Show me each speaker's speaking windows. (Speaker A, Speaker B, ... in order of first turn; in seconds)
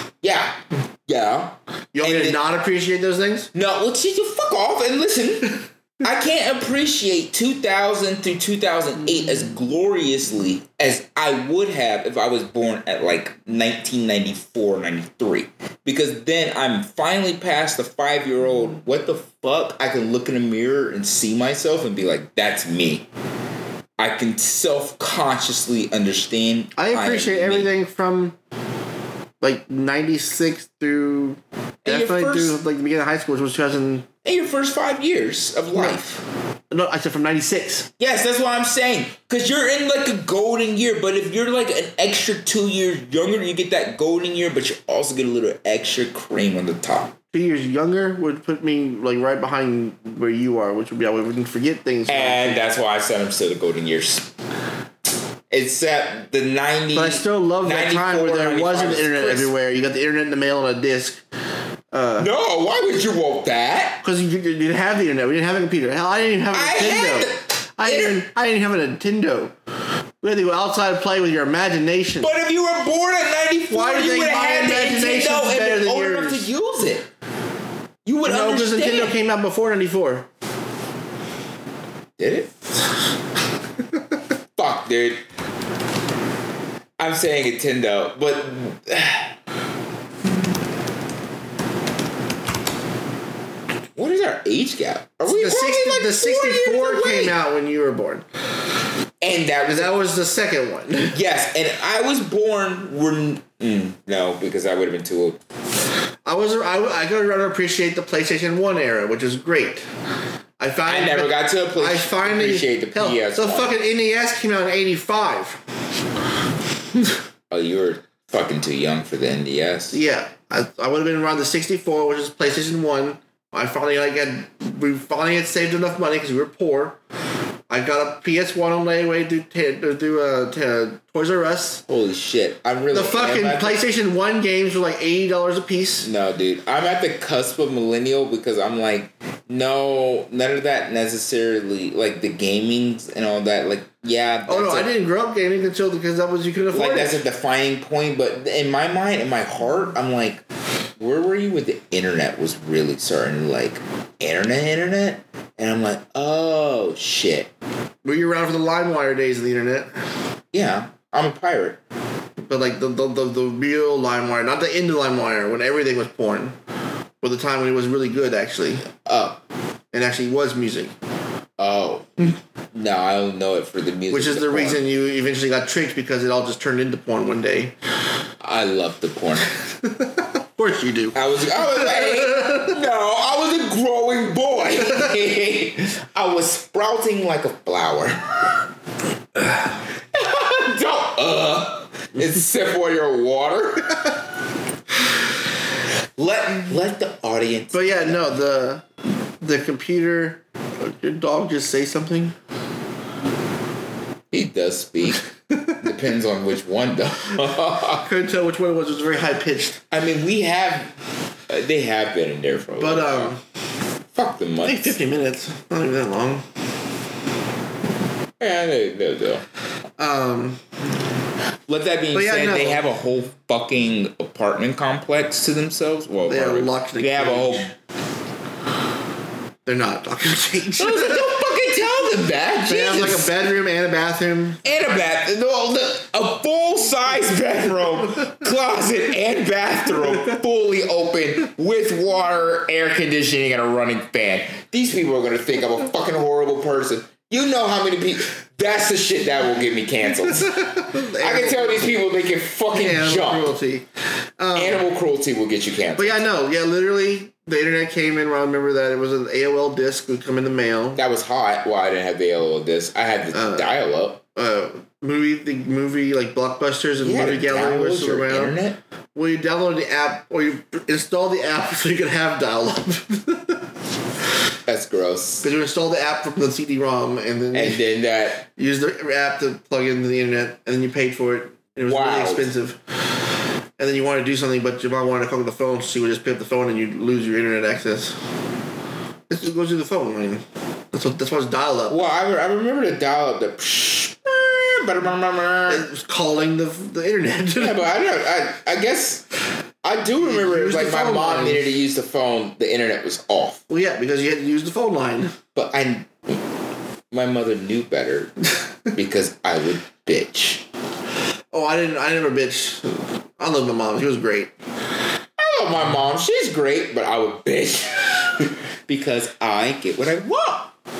Speaker A: 0.2-2.4, 3.5-23.1, 24.0-27.7, 31.9-32.6, 34.2-36.2, 38.0-47.1, 52.1-54.3, 55.5-59.5, 62.2-64.0, 66.5-68.2, 72.2-77.1, 78.0-79.1, 82.2-82.5, 84.6-85.2, 87.0-89.3, 94.0-97.3, 99.2-100.0, 101.1-105.4, 110.9-113.7, 117.5-120.0, 131.9-133.8, 136.0-144.9, 146.7-150.4, 151.0-157.5, 160.5-161.8, 169.0-169.4, 171.6-174.8, 178.4-179.6, 181.1-188.6, 190.1-194.1, 196.2-198.3, 204.3-208.1, 209.9-210.9, 211.5-213.3, 214.1-215.0, 218.4-219.4, 221.7-227.7, 230.8-233.3, 234.6-253.6, 254.6-256.2, 260.9-264.2, 267.0-268.8, 274.7-275.5, 277.5-278.5, 281.9-282.5, 291.9-295.9, 297.6-299.2, 299.8-303.6, 305.5-306.4, 307.1-308.3, 308.9-310.6, 315.4-320.7
Speaker B: 1.9-3.5, 26.8-28.4, 29.4-34.1, 36.7-37.9, 47.3-52.6, 56.9-61.2, 61.9-62.3, 64.0-69.5, 70.2-72.3, 73.7-76.5, 78.2-80.3, 95.3-98.2, 99.7-101.2, 106.2-109.9, 110.6-115.6, 119.9-127.0, 127.7-131.8, 132.9-136.1, 144.5-147.2, 158.0-159.9, 162.4-166.6, 167.2-168.9, 169.9-170.9, 174.1-177.7, 180.0-182.7, 197.7-198.9, 199.4-202.3, 208.0-209.8, 212.8-213.4, 214.6-216.4, 220.0-220.6, 222.1-222.8, 226.3-227.7, 229.7-231.5, 232.7-234.6, 250.5-251.9, 252.7-253.9, 254.4-254.8, 255.9-261.0, 263.3-263.7, 264.4-268.6, 269.1-273.6, 275.4-277.8, 278.6-282.8, 283.8-288.2, 289.3-292.0, 295.7-297.8, 300.2-301.7, 303.7-305.4, 311.5-314.5